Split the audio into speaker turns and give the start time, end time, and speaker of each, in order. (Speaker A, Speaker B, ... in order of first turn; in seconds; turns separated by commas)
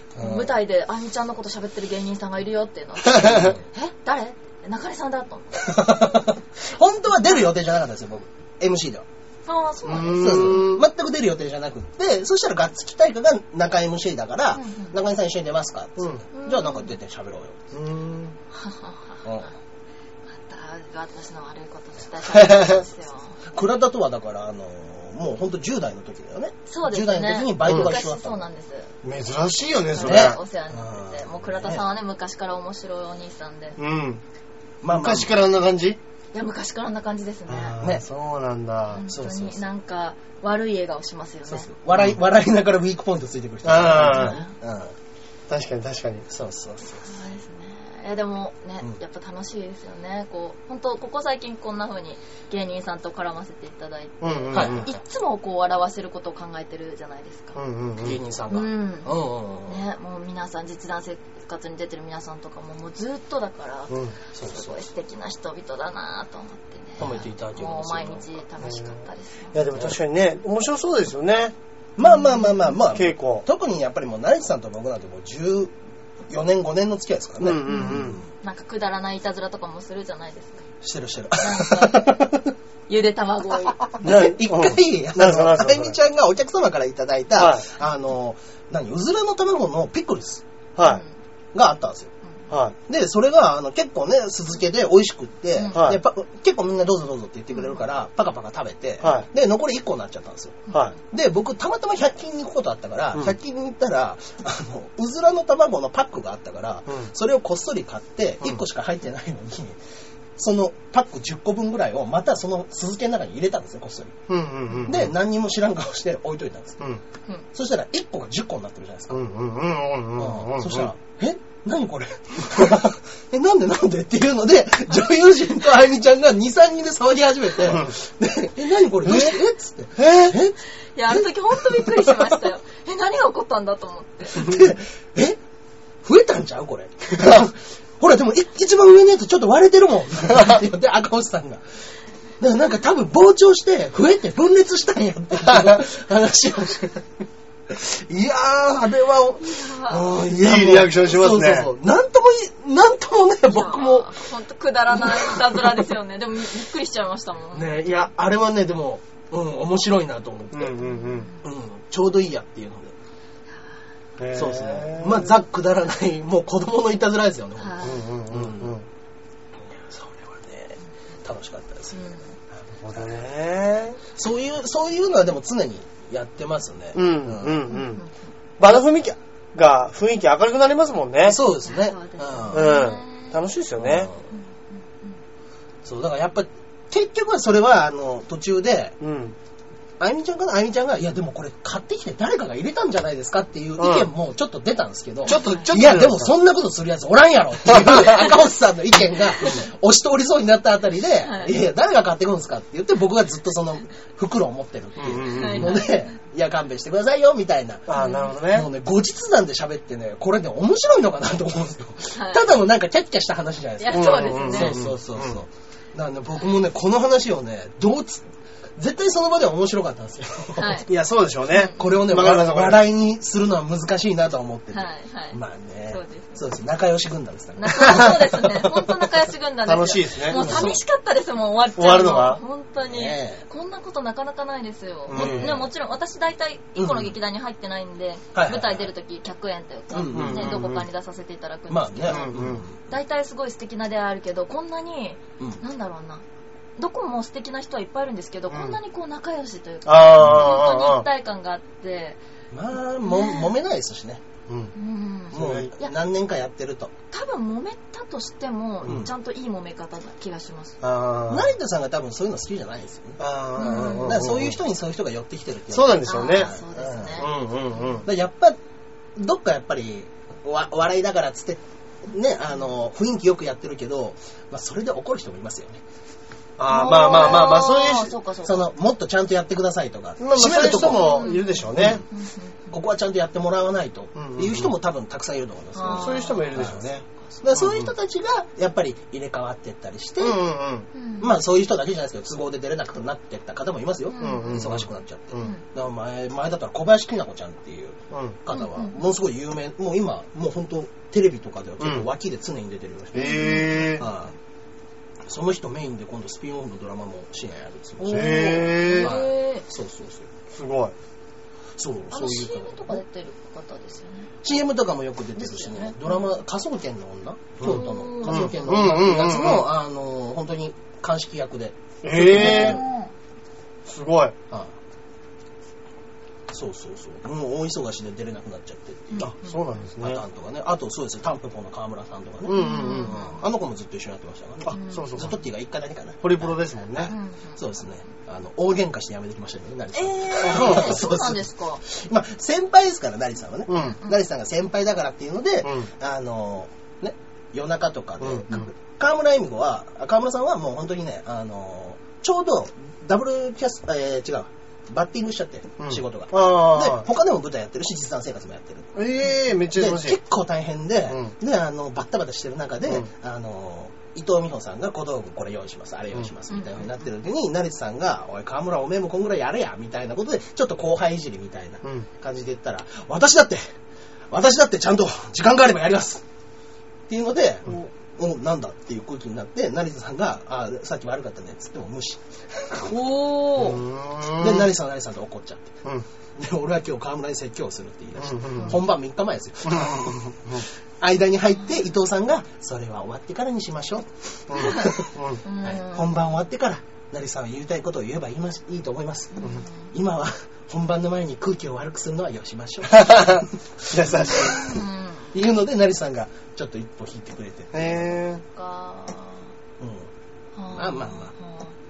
Speaker A: 0.2-0.5, Speaker B: 0.2-5.7, Speaker C: 3.2-3.5, Speaker A: 3.2-3.6, Speaker A: 5.6-9.1, Speaker B: 9.5-10.7, Speaker C: 9.8-10.8, Speaker A: 10.0-17.7, Speaker B: 14.6-14.9, Speaker B: 16.3-16.9, Speaker C: 17.7-18.4, Speaker B: 18.5-19.2, Speaker A: 19.2-19.5, Speaker B: 20.4-23.4, Speaker C: 22.3-22.8, Speaker A: 23.5-28.4, Speaker B: 26.7-28.9, Speaker C: 27.7-27.9, Speaker C: 29.0-30.4, Speaker B: 29.9-33.8, Speaker A: 30.0-31.8, Speaker C: 33.8-34.2, Speaker A: 34.8-35.3, Speaker C: 34.9-36.0, Speaker B: 36.3-37.8, Speaker C: 37.5-39.0, Speaker A: 37.8-38.0, Speaker B: 38.9-41.7, Speaker A: 39.1-39.6, Speaker A: 41.5-44.9, Speaker C: 43.6-44.4, Speaker B: 43.9-44.5, Speaker C: 45.5-46.3, Speaker A: 46.3-47.1, Speaker B: 47.0-57.6, Speaker C: 54.2-54.9, Speaker A: 54.5-54.9, Speaker C: 57.6-58.2, Speaker A: 58.0-59.8, Speaker B: 58.5-59.1, Speaker B: 59.7-69.6, Speaker A: 64.3-64.8, Speaker A: 67.0-68.4, Speaker C: 68.6-68.9, Speaker C: 69.5-71.5, Speaker A: 72.0-75.7, Speaker B: 72.2-72.5, Speaker C: 72.8-73.5, Speaker A: 76.3-78.2, Speaker C: 77.4-78.2, Speaker B: 77.7-80.7, Speaker A: 80.8-82.5, Speaker B: 81.4-82.2, Speaker B: 82.9-83.9, Speaker A: 84.0-90.4, Speaker C: 84.0-86.0, Speaker C: 87.4-87.7, Speaker B: 90.8-91.1, Speaker A: 91.5-92.1, Speaker C: 92.5-92.8, Speaker A: 92.9-109.8, Speaker B: 95.6-95.8, Speaker C: 95.7-96.0, Speaker C: 99.0-99.3, Speaker B: 100.7-100.9, Speaker A: 110.4-114.2, Speaker C: 114.3-115.1, Speaker A: 114.8-116.8, Speaker A: 117.5-119.2, Speaker C: 119.1-120.9, Speaker A: 120.2-130.6, Speaker C: 127.7-127.9, Speaker C: 129.0-129.4, Speaker C: 130.0-130.4, Speaker B: 131.0-134.6, Speaker A: 131.1-132.4, Speaker A: 134.3-135.4, Speaker A: 136.0-141.6, Speaker A: 142.4-147.1, Speaker C: 145.5-145.8, Speaker A: 147.7-154.2, Speaker B: 149.5-150.1, Speaker C: 150.2-151.7, Speaker B: 153.5-157.7, Speaker A: 154.9-155.6, Speaker A: 157.5-160.8, Speaker C: 160.5-161.3, Speaker B: 160.8-161.4, Speaker A: 161.4-162.9, Speaker C: 164.2-165.3, Speaker A: 164.3-168.8, Speaker B: 167.6-168.0, Speaker C: 167.8-168.8, Speaker A: 169.6-172.0, Speaker B: 171.9-172.3, Speaker C: 172.8-174.0, Speaker A: 174.2-177.7, Speaker C: 176.9-178.0, Speaker B: 177.7-178.1, Speaker C: 178.6-181.4, Speaker A: 181.2-182.8, Speaker B: 181.7-183.4, Speaker C: 182.5-184.1, Speaker A: 183.8-184.3, Speaker A: 185.8-189.0, Speaker C: 189.0-189.4, Speaker A: 190.0-220.9, Speaker C: 193.8-194.1, Speaker B: 195.3-195.7, Speaker C: 195.3-196.3, Speaker C: 197.7-198.2, Speaker B: 201.2-201.5, Speaker C: 205.0-205.8, Speaker B: 205.2-206.1, Speaker C: 207.9-208.7, Speaker B: 207.9-208.3, Speaker B: 212.2-212.5, Speaker B: 213.8-214.8, Speaker C: 213.9-215.4, Speaker B: 220.6-220.9, Speaker C: 220.9-222.8, Speaker B: 221.5-221.8, Speaker A: 221.5-229.1, Speaker B: 224.7-225.4, Speaker B: 225.9-226.4, Speaker B: 227.6-246.2, Speaker C: 229.7-230.8, Speaker A: 230.3-230.8, Speaker C: 231.8-232.4, Speaker A: 232.8-233.4, Speaker C: 235.1-235.6, Speaker A: 235.1-235.7, Speaker A: 236.8-237.1, Speaker A: 238.3-238.9, Speaker A: 239.9-240.6, Speaker C: 240.1-240.9, Speaker A: 241.7-242.8, Speaker C: 242.1-242.6, Speaker B: 246.8-252.2, Speaker C: 248.5-248.8, Speaker C: 249.9-251.1, Speaker A: 250.2-250.5, Speaker A: 252.5-254.2, Speaker B: 253.1-253.5, Speaker C: 254.5-254.7, Speaker B: 254.8-255.9, Speaker A: 255.3-256.9, Speaker C: 255.3-255.7, Speaker B: 257.1-260.8, Speaker A: 258.9-259.1, Speaker C: 260.8-261.5, Speaker A: 261.3-267.3, Speaker C: 263.2-264.6, Speaker B: 263.6-264.2, Speaker C: 265.7-266.6, Speaker B: 266.0-268.0, Speaker C: 267.2-268.1, Speaker A: 268.0-268.6, Speaker A: 269.2-275.8, Speaker C: 276.6-278.1, Speaker B: 276.7-278.7, Speaker A: 277.1-277.6, Speaker A: 278.4-282.0, Speaker C: 280.2-282.0, Speaker B: 280.6-282.7, Speaker A: 282.7-286.9, Speaker C: 284.1-284.7, Speaker B: 285.8-286.7, Speaker C: 285.9-287.9, Speaker A: 287.4-290.4, Speaker C: 290.2-290.9, Speaker B: 290.9-291.3, Speaker A: 291.2-304.3, Speaker B: 294.1-294.8, Speaker C: 294.2-295.6, Speaker C: 298.1-298.4, Speaker B: 298.5-298.9, Speaker C: 301.8-302.1, Speaker C: 303.1-304.0, Speaker B: 303.1-304.2, Speaker A: 305.3-310.3, Speaker B: 308.0-309.6, Speaker C: 308.1-309.1, Speaker C: 310.5-310.9, Speaker A: 311.8-313.0, Speaker B: 312.1-314.3, Speaker A: 314.4-322.8, Speaker B: 315.4-316.2, Speaker C: 317.6-319.7, Speaker B: 317.6-318.7, Speaker C: 322.0-322.8, Speaker B: 322.2-323.1, Speaker C: 323.9-324.4, Speaker A: 326.5-329.3, Speaker B: 329.2-329.7, Speaker C: 329.2-330.2, Speaker A: 330.0-359.0, Speaker C: 332.4-333.2, Speaker B: 332.5-333.4, Speaker C: 334.6-335.4, Speaker B: 334.7-335.2, Speaker C: 336.2-337.1, Speaker B: 337.1-337.6, Speaker B: 339.9-341.8, Speaker C: 340.4-341.0, Speaker C: 343.7-344.0, Speaker B: 343.7-344.2, Speaker C: 345.6-345.9, Speaker C: 348.2-348.7, Speaker C: 355.8-357.1, Speaker C: 359.0-360.2, Speaker A: 359.7-373.6, Speaker C: 361.1-361.3, Speaker B: 366.5-366.9, Speaker A: 374.3-376.2, Speaker A: 377.1-382.9, Speaker B: 382.7-383.8, Speaker C: 383.6-384.7, Speaker A: 384.3-385.7, Speaker A: 386.4-404.8, Speaker C: 388.2-388.8, Speaker B: 388.5-388.8, Speaker C: 389.7-390.6, Speaker C: 394.5-395.4, Speaker B: 394.6-394.9, Speaker B: 395.4-396.1, Speaker B: 399.3-399.9, Speaker C: 402.9-404.7, Speaker B: 404.4-405.3, Speaker A: 405.3-408.2, Speaker C: 407.7-408.4, Speaker B: 408.5-409.5, Speaker A: 409.8-410.1, Speaker B: 410.6-411.8, Speaker A: 410.7-411.3